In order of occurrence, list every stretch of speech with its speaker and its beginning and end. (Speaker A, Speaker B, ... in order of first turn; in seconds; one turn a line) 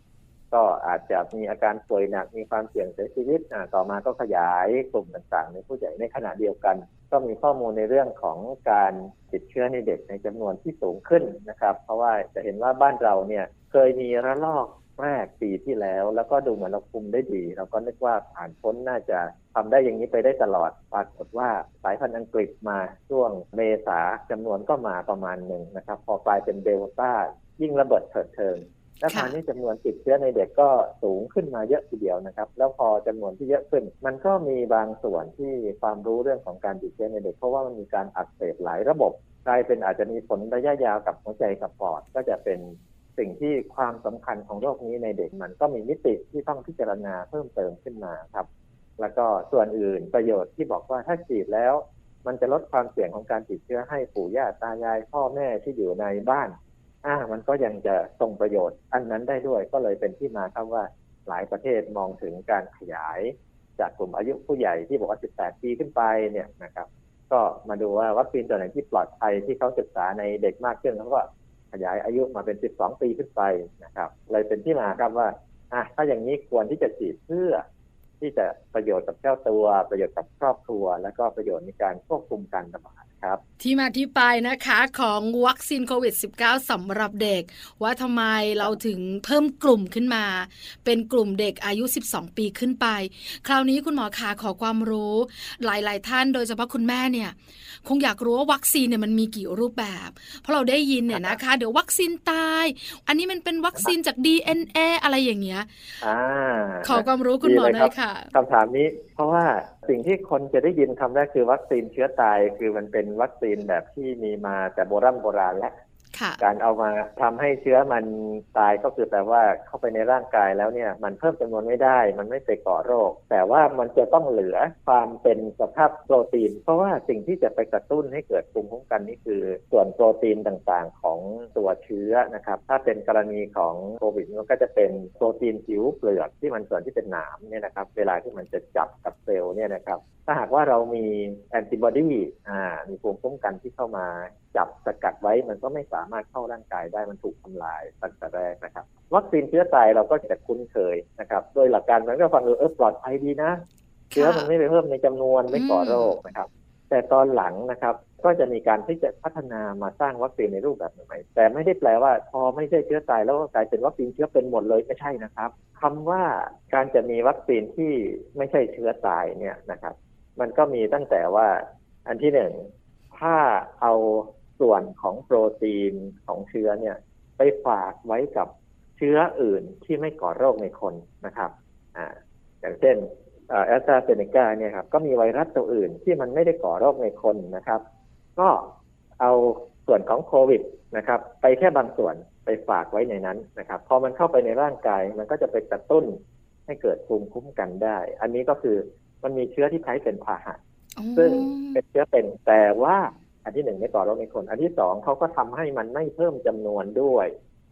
Speaker A: 0.5-48.5
Speaker B: 29.1-29.3
Speaker A: 49.0-77.6
Speaker A: 78.2-83.4
Speaker B: 83.6-105.7
Speaker A: 101.1-101.4
Speaker A: 106.0-115.7
Speaker B: 106.8-108.3
Speaker B: 116.1-116.4
Speaker A: 116.4-153.6
Speaker B: 154.1-154.5
Speaker A: 154.1-187.8
Speaker B: 155.5-156.1
Speaker A: 188.3-200.6
Speaker B: 201.0-201.8
Speaker A: 201.1-207.3